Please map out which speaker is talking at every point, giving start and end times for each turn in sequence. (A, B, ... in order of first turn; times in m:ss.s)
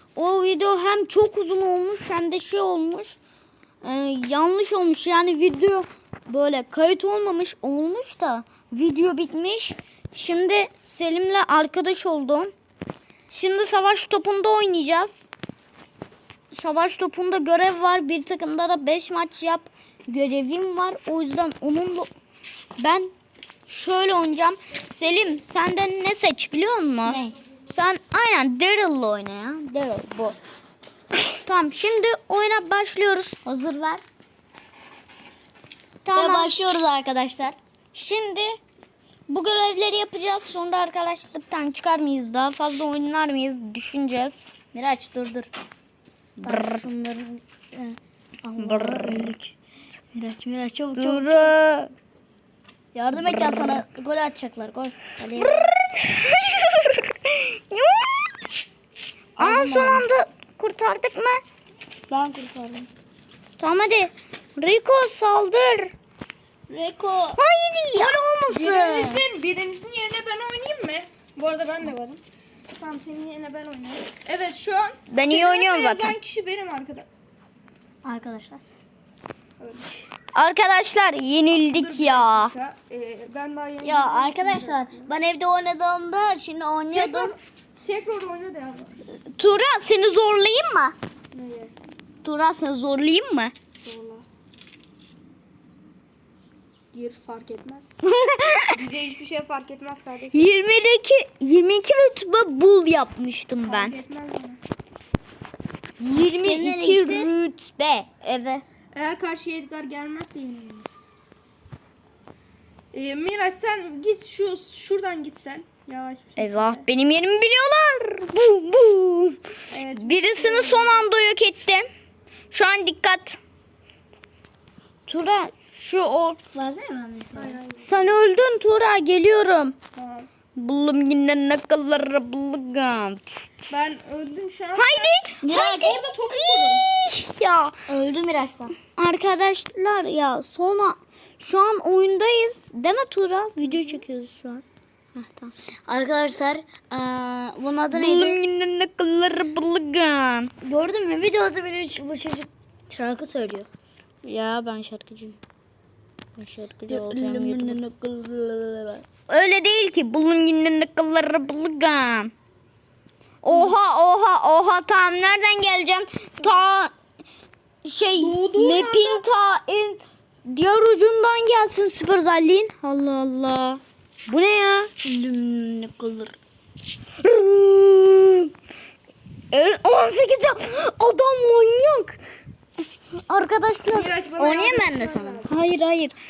0:00.2-0:03.2 A
0:03.8-0:12.5 A
0:13.3-0:15.2 A
0:16.5-0:22.1 A
0:22.8-0:23.1 A
0:23.7-0:30.4 A
0:27.0-0:27.4 B
0:31.3-0:34.0 A
0:36.0-0:36.6 A
0:36.1-0:37.6 B
0:37.9-0:38.6 A
0:39.3-0:44.5 A
0:44.7-0:45.5 B
0:46.4-0:49.5 B
0:46.4-0:46.8 A
0:48.6-0:49.3 A
0:50.1-0:51.5 B
0:50.9-0:51.9 A
0:52.9-0:55.7 B
0:53.2-0:53.8 A
0:55.4-0:58.4 A
0:59.4-1:01.4 A
0:59.4-1:00.0 B
1:02.1-1:02.9 B
1:03.6-1:05.9 A
1:06.7-1:07.4 B
1:07.4-1:08.2 A
1:07.9-1:09.2 B
1:08.5-1:12.2 C
1:12.8-1:17.1 C
1:15.1-1:16.2 A
1:18.0-1:18.6 B
1:19.6-1:20.1 C
1:20.3-1:22.5 A
1:21.7-1:25.1 C
1:23.8-1:27.3 B
1:26.9-1:28.9 C
1:29.2-1:31.0 A
1:31.3-1:31.7 C
1:32.2-1:33.5 A
1:33.8-1:34.2 C
1:36.9-1:37.9 C
1:38.0-1:38.8 A
1:38.7-1:40.5 C
1:40.3-1:44.0 A
1:43.6-1:44.6 C
1:46.0-1:48.6 A
1:46.1-1:47.3 B
1:48.9-1:50.9 C
1:52.9-1:56.8 C
1:56.4-1:59.4 A
1:59.7-2:01.0 C
1:59.9-2:01.9 A
2:02.5-2:03.4 A
2:05.1-2:06.4 A
2:06.5-2:07.6 B
2:07.4-2:08.0 C
2:07.8-2:09.8 A
2:10.0-2:10.3 C
2:10.6-2:13.5 A
2:13.7-2:16.8 C
2:14.7-2:15.4 A
2:15.4-2:16.0 B
2:16.3-2:17.7 A
2:17.9-2:18.7 B
2:19.0-2:24.6 A
2:25.1-2:25.5 A
2:25.8-2:28.4 B
2:27.9-2:30.5 A
2:30.6-2:33.7 B
2:34.2-2:35.4 A
2:36.4-2:37.8 A
2:36.9-2:39.0 B
2:39.3-2:42.3 A
2:43.4-2:46.9 A
2:43.5-2:43.7 B
2:47.8-2:54.9 A
2:48.2-2:49.2 C
2:55.0-2:56.4 B
2:57.2-2:58.5 A
2:59.5-3:02.2 A
3:03.3-3:04.1 A
3:03.9-3:05.5 C
3:04.4-3:05.5 B
3:05.4-3:06.1 A